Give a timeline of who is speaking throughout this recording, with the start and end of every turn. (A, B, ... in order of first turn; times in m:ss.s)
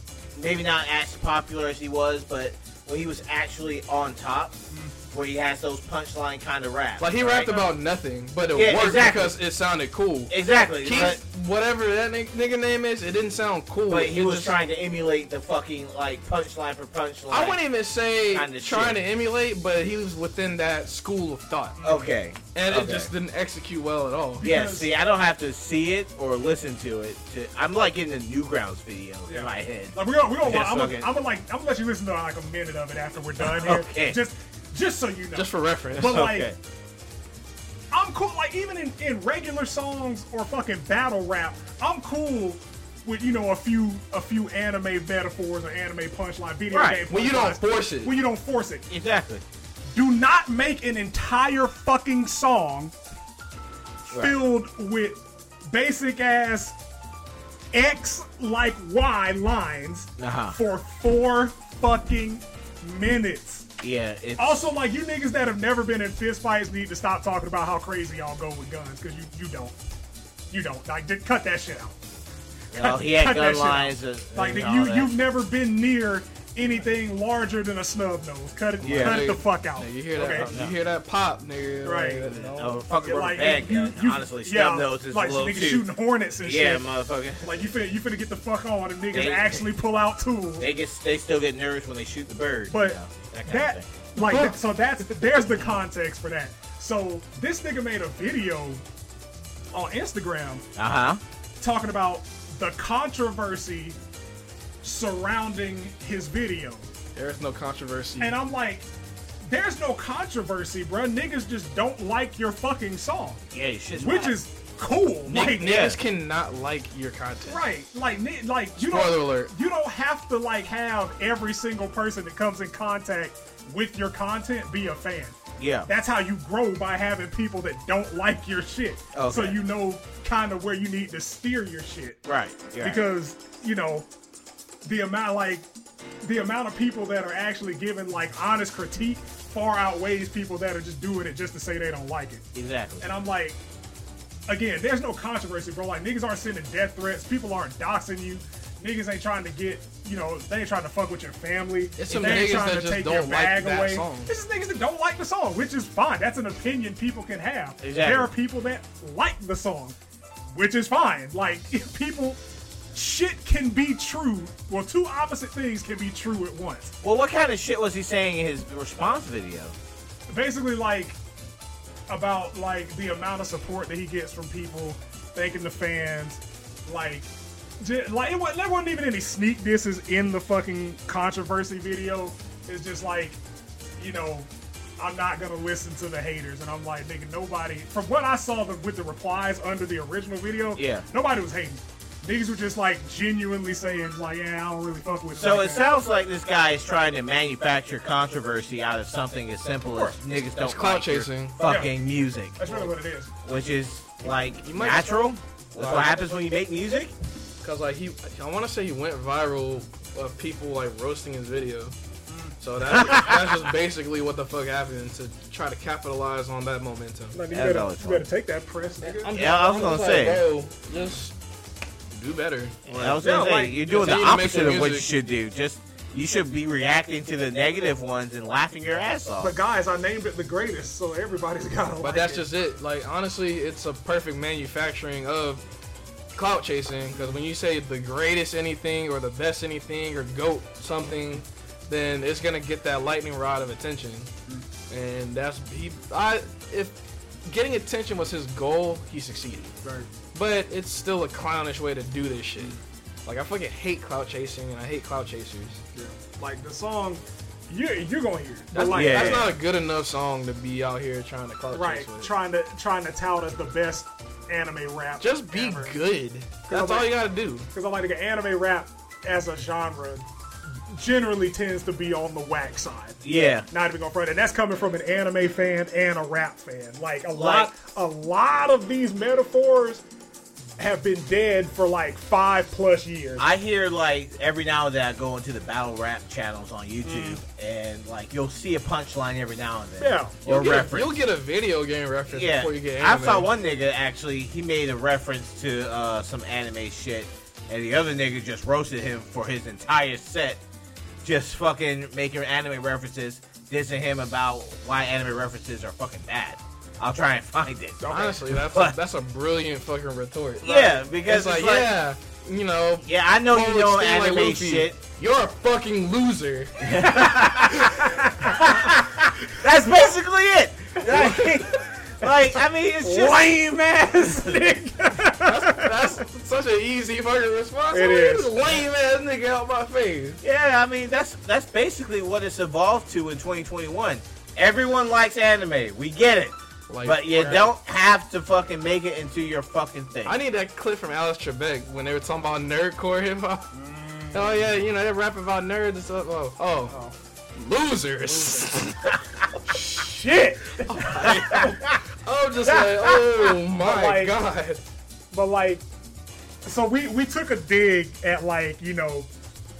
0:00.3-0:04.6 A
0:05.1-0:07.7 A
0:07.0-0:14.6 B
0:08.5-0:09.4 A
0:10.3-0:11.2 A
0:13.9-0:17.6 A
0:17.3-0:21.8 B
0:18.3-0:19.0 A
0:21.8-0:22.1 C
0:21.8-0:23.1 A
0:22.5-0:24.4 B
0:24.4-0:24.9 C
0:24.4-0:31.1 A
0:29.3-0:36.5 C
0:33.4-0:34.2 A
0:35.3-0:36.3 B
0:36.0-0:36.6 A
0:37.9-0:48.8 C
0:46.7-0:47.0 A
0:47.1-0:48.1 B
0:48.9-0:49.4 A
0:49.9-0:52.9 C
0:54.1-0:54.3 A
0:54.1-0:56.7 C
0:57.7-1:03.7 C
1:00.2-1:00.5 A
1:03.8-1:04.7 A
1:04.4-1:09.7 C
1:10.5-1:12.0 C
1:12.7-1:15.1 A
1:12.7-1:20.5 C
1:18.8-1:19.2 A
1:18.8-1:22.8 B
1:20.4-1:20.7 A
1:21.8-1:22.3 C
1:22.3-1:25.9 A
1:23.0-1:26.8 C
1:26.4-1:27.7 A
1:27.4-1:30.7 C
1:29.1-1:29.6 A
1:30.6-1:33.9 A
1:32.7-1:38.8 C
1:34.2-1:34.5 B
1:35.4-1:35.8 A
1:39.7-1:40.6 C
1:40.8-1:41.2 A
1:41.6-1:44.0 C
1:44.8-1:46.9 C
1:47.1-1:48.4 B
1:48.2-1:48.9 C
1:49.4-1:53.4 C
1:53.5-1:54.4 A
1:54.0-1:55.9 C
1:55.2-1:57.6 B
1:55.6-1:56.0 A
1:57.5-2:05.4 C
1:58.8-1:59.5 B
2:05.6-2:05.9 A
2:05.9-2:12.2 C
2:09.1-2:09.6 A
2:12.2-2:13.0 A
2:12.8-2:14.1 C
2:14.8-2:15.6 C
2:16.2-2:22.4 C
2:22.5-2:23.0 A
2:23.0-2:23.6 C
2:24.5-2:40.0 C
2:32.0-2:34.3 B
2:32.1-2:32.4 A
2:37.8-2:38.3 A
2:40.5-2:42.4 C
2:42.9-2:46.9 C
2:47.0-2:49.7 A
2:50.3-2:51.2 C
2:52.1-2:57.3 C
2:57.8-3:03.4 C
3:04.0-3:15.8 C
3:10.8-3:11.0 A
3:15.3-3:22.6 A
3:20.6-3:21.6 B
3:21.6-3:21.9 C
3:22.6-3:23.3 C
3:23.4-3:27.1 A
3:24.6-3:25.1 B
3:25.8-3:26.2 B
3:27.6-3:31.9 B
3:32.3-3:32.5 C
3:32.6-3:37.4 B
3:32.8-3:33.6 A
3:37.3-3:39.4 C
3:37.5-3:38.3 A
3:39.0-3:41.3 B
3:39.3-3:40.4 A
3:42.1-3:45.1 B
3:42.9-3:49.5 A
3:43.2-3:44.2 C
3:49.4-3:52.4 C
3:52.0-3:55.6 B
3:56.3-4:04.3 B
4:04.9-4:06.9 B
4:07.4-4:09.7 B
4:09.8-4:10.1 C
4:10.3-4:15.8 B
4:15.9-4:19.5 C
4:18.7-4:22.3 B
4:18.9-4:19.5 A
4:21.7-4:26.0 C
4:25.2-4:27.7 B
4:26.7-4:27.1 C
4:27.7-4:30.3 C
4:30.9-4:40.0 C
4:33.2-4:33.7 A
4:37.3-4:37.7 A
4:40.8-4:43.5 C
4:43.4-4:51.2 A
4:47.0-4:47.4 C
4:50.0-4:50.4 C
4:50.4-4:53.5 B
4:52.3-5:00.6 A
5:01.2-5:08.9 A
5:08.0-5:08.4 C
5:08.1-5:16.8 B
5:10.6-5:11.9 A
5:13.0-5:15.0 A
5:16.8-5:23.7 A
5:17.0-5:18.6 C
5:21.1-5:21.5 B
5:23.0-5:26.2 C
5:24.2-5:24.6 A
5:25.4-5:30.4 B
5:27.9-5:28.5 C
5:30.4-5:40.4 A
5:36.9-5:37.6 B
5:40.2-5:43.7 B
5:43.7-5:44.6 C
5:44.3-5:47.0 B
5:46.9-5:47.1 C
5:47.6-5:49.2 B
5:48.3-5:48.7 C
5:49.6-5:51.6 C
5:50.8-5:54.8 B
5:51.2-5:52.0 A
5:52.6-5:53.2 A
5:53.8-5:54.4 C
5:55.3-5:55.8 C
5:56.6-5:59.3 C